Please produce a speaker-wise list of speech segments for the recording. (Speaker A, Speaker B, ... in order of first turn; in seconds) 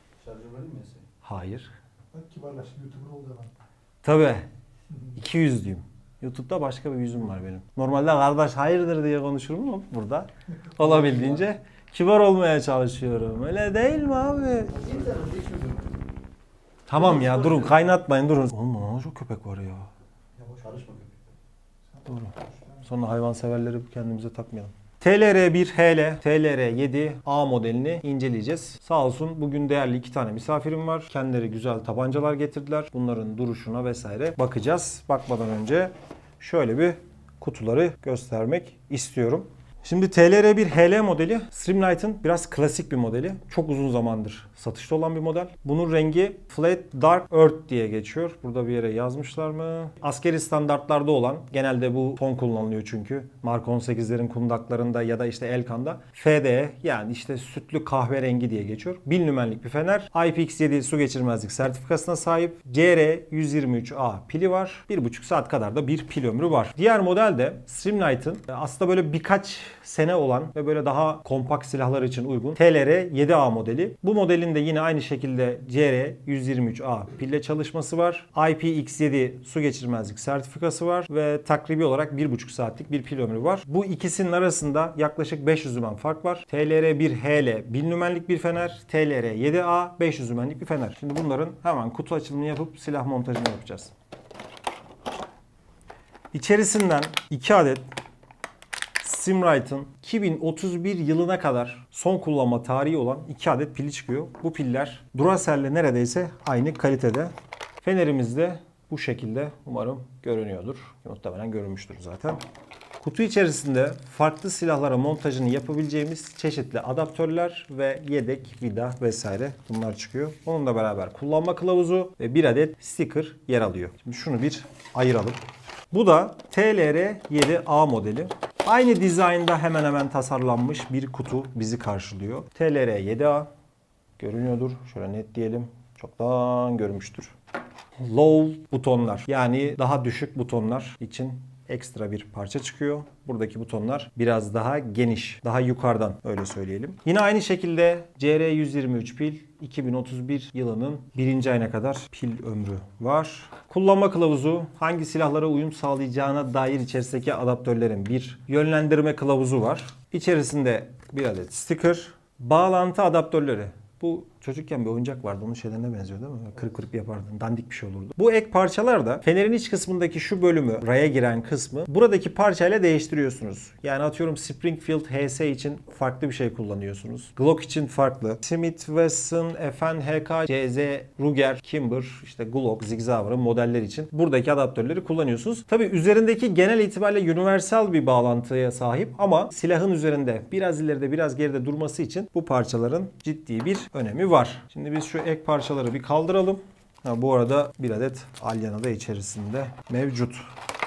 Speaker A: 0.2-1.1, 10.8-11.4, 14.7-15.9, 16.9-17.8, 20.6-21.4
Speaker B: 1.2-1.7, 4.0-4.5, 5.1-14.7, 16.9-19.9, 22.0-93.9, 96.3-97.8, 99.0-112.4, 113.0-125.4, 125.9-133.5, 134.2-137.3, 138.0-200.4
Speaker C: 2.1-3.5, 21.9-22.9